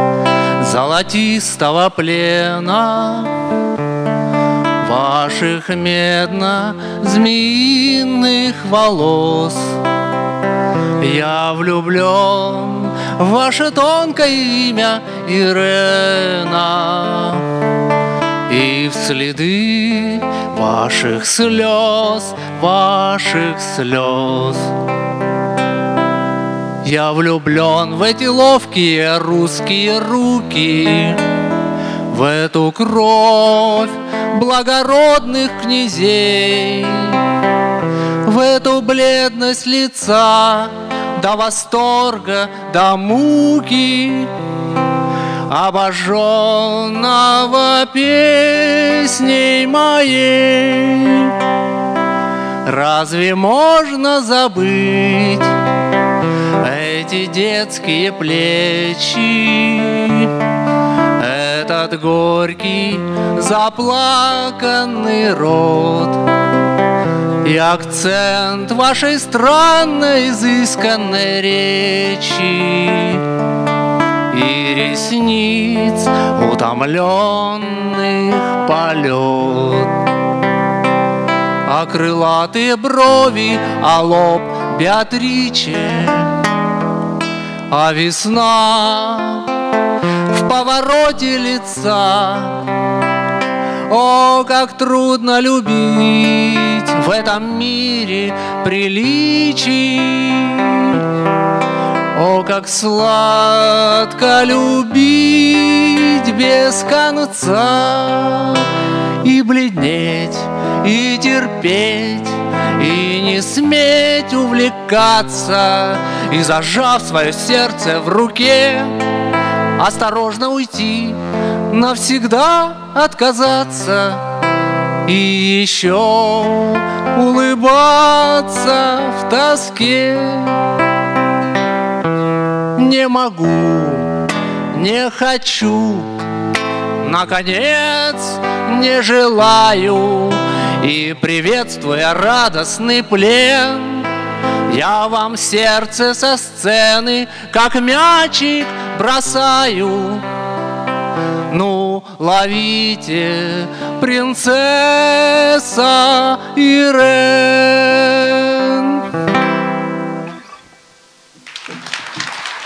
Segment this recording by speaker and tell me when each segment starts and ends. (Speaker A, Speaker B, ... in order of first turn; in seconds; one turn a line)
Speaker A: 0.6-3.4
Speaker A: 4.8-9.8
Speaker A: 11.0-17.6
Speaker A: 18.5-24.8
Speaker A: 26.8-31.3
Speaker A: 32.1-37.4
Speaker A: 38.2-44.3
Speaker A: 45.5-51.4
Speaker A: 52.6-55.6
Speaker A: 56.5-60.4
Speaker A: 61.1-66.3
Speaker A: 67.4-73.3
Speaker A: 74.3-80.0
Speaker A: 81.6-86.4
Speaker A: 87.7-89.6
Speaker A: 90.3-92.7
Speaker A: 93.9-101.1
Speaker A: 102.1-119.1
Speaker A: 119.7-124.4
Speaker A: 125.0-130.7
Speaker A: 132.7-134.2
Speaker A: 134.7-136.1
Speaker A: 137.0-144.1
Speaker A: 144.7-150.3
Speaker A: 151.5-159.1